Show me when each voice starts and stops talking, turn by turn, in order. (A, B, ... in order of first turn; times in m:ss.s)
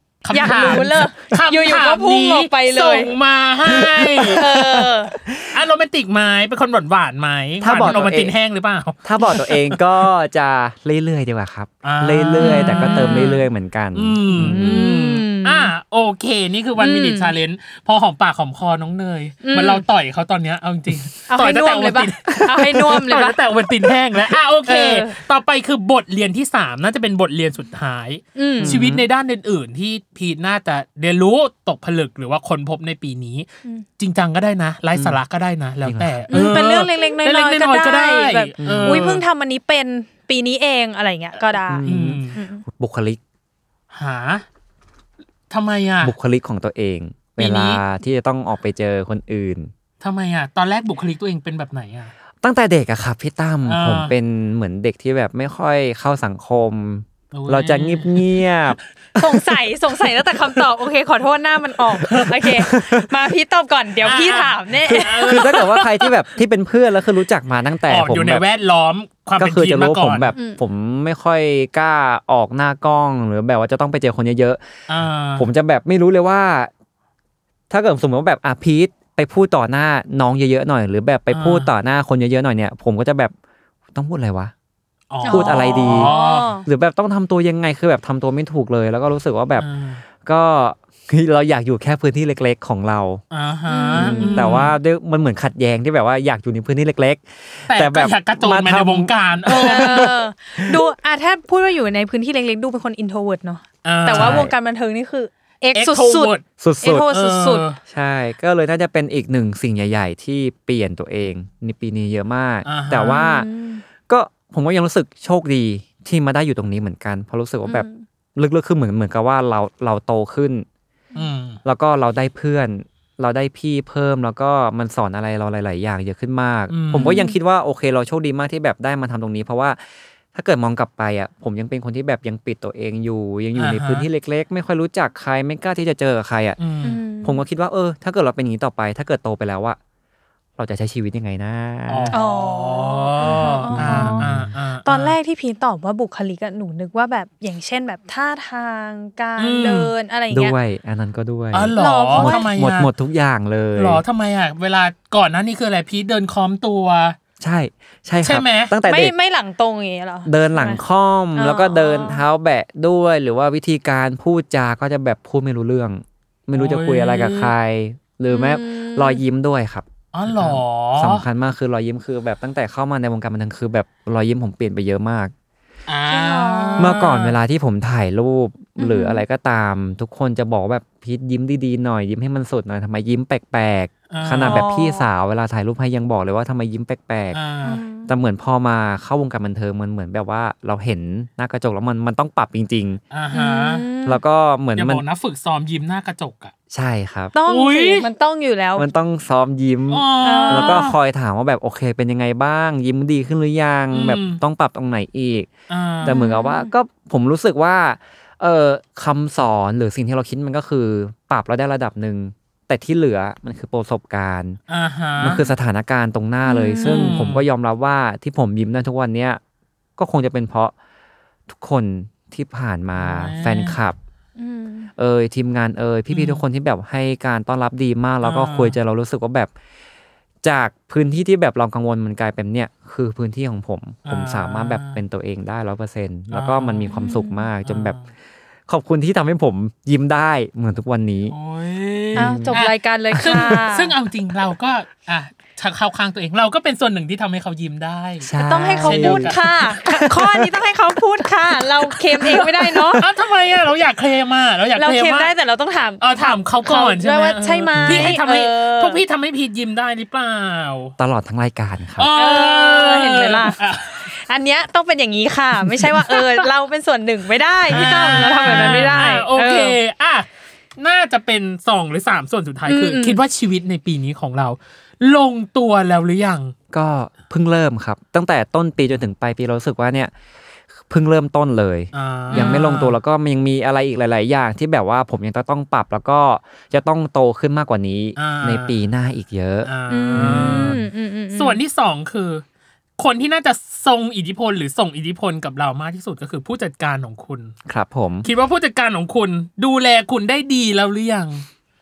0:00.2-0:04.5 A
0:00.3-0:03.1 B
0:00.4-0:00.9 C
0:03.8-0:04.6 C
0:04.4-0:05.1 B
0:05.2-0:05.5 C
0:05.5-0:09.8 A
0:07.6-0:08.3 C
0:09.0-0:14.8 C
0:11.8-0:33.5 A
0:12.4-0:13.4 B
0:14.4-0:15.7 B
0:16.8-0:17.3 B
0:19.4-0:19.8 B
0:21.3-0:23.4 B
0:24.7-0:25.2 B
0:28.4-0:28.8 B
0:28.6-0:29.1 C
0:34.0-0:39.2 A
0:34.9-0:35.2 C
0:35.8-0:36.6 C
0:36.3-0:42.6 B
0:38.6-0:39.1 C
0:41.7-0:43.2 C
0:41.9-0:42.4 A
0:43.9-0:44.4 A
0:45.5-0:46.1 A
0:46.0-0:49.7 C
0:47.4-0:47.8 A
0:50.0-0:52.1 A
0:52.4-0:59.4 C
0:53.7-0:54.1 A
0:57.3-0:58.5 A
0:59.2-1:05.5 B
1:02.1-1:02.3 A
1:02.6-1:03.1 C
1:04.0-1:06.1 A
1:05.0-1:08.4 C
1:07.9-1:10.3 A
1:09.4-1:14.6 C
1:10.3-1:10.6 B
1:14.9-1:15.5 A
1:15.4-1:16.7 C
1:17.7-1:23.3 C
1:21.3-1:21.7 A
1:23.9-1:24.5 C
1:25.1-1:26.5 A
1:25.2-1:26.7 B
1:25.3-1:29.7 C
1:29.6-1:30.0 A
1:30.2-1:33.2 C
1:33.3-1:34.8 A
1:33.7-1:34.5 B
1:34.0-1:40.8 C
1:37.7-1:40.2 A
1:39.5-1:47.7 B
1:43.8-1:44.5 A
1:44.1-1:44.5 C
1:45.7-1:46.4 A
1:46.6-1:47.1 C
1:47.0-1:47.8 A
1:47.9-1:53.5 C
1:52.6-1:53.2 A
1:53.0-1:53.8 B
1:54.1-2:00.7 C
1:57.7-1:58.0 B
2:01.2-2:01.6 A
2:01.6-2:09.8 C
2:06.7-2:07.2 A
2:06.9-2:07.4 B
2:10.3-2:16.6 C
2:13.6-2:14.1 A
2:16.6-2:17.0 A
2:16.8-2:17.4 B
2:17.2-2:19.8 C
2:20.6-2:22.2 C
2:21.9-2:25.2 A
2:22.1-2:24.3 B
2:23.2-2:24.5 C
2:24.8-2:30.6 B
2:29.4-2:29.9 A
2:30.3-2:34.0 C
2:31.5-2:32.9 A
2:31.8-2:32.5 B
2:33.8-2:37.2 A
2:37.4-2:39.1 C
2:38.2-2:38.8 A
2:38.8-2:40.8 B
2:40.2-2:55.3 C
2:41.4-2:42.2 B
2:46.5-2:47.5 A
2:48.3-2:49.2 B
2:50.1-2:51.2 A
2:55.9-2:57.4 A
2:56.1-2:57.0 B
2:56.8-3:07.4 C
2:58.8-2:59.2 B
3:04.1-3:04.6 A
3:04.4-3:05.1 B
3:07.3-3:07.8 A
3:07.6-3:08.1 B
3:08.0-3:13.0 C
3:13.1-3:13.9 A
3:13.3-3:14.2 B
3:14.0-3:15.0 C
3:14.8-3:16.5 A
3:16.7-3:17.3 C
3:17.3-3:18.9 B
3:17.5-3:18.1 A
3:18.8-3:25.5 C
3:19.9-3:21.0 A
3:20.2-3:20.8 B
3:23.9-3:24.4 A
3:25.7-3:26.2 A
3:26.0-3:34.6 C
3:26.0-3:26.7 B
3:34.7-3:35.4 A
3:35.2-3:39.4 C
3:36.4-3:37.2 B
3:36.8-3:37.5 A
3:40.0-3:40.7 C
3:41.5-3:44.0 C
3:43.0-3:43.8 A
3:44.4-3:44.9 B
3:45.0-3:49.5 C
3:46.1-3:46.4 A
3:48.2-3:48.8 A
3:50.4-3:58.0 C
3:54.0-3:55.0 A
3:56.3-3:56.9 A
3:56.9-3:57.5 B
3:57.6-3:58.0 A
3:58.7-4:01.4 C
4:01.3-4:08.3 A
4:02.1-4:03.6 C
4:02.2-4:03.9 B
4:08.2-4:10.6 C
4:08.4-4:13.0 B
4:08.8-4:10.1 A
4:12.2-4:13.1 C
4:13.0-4:15.3 A
4:14.8-4:19.0 B
4:16.0-4:20.9 A
4:17.8-4:18.1 C
4:21.0-4:22.1 C
4:22.0-4:24.1 A
4:22.1-4:29.8 B
4:26.2-4:26.4 A
4:27.7-4:30.3 A
4:28.5-4:28.8 C
4:30.8-4:36.5 A
4:32.7-4:33.2 B
4:36.7-4:40.1 C
4:40.9-4:50.8 C
4:41.9-4:43.0 A
4:42.3-4:42.6 B
4:48.2-4:48.8 A
4:49.6-4:50.8 A
4:49.9-4:51.6 B
4:51.3-4:52.4 A
4:53.0-4:57.5 A
4:57.7-4:58.3 C
4:58.2-5:01.4 A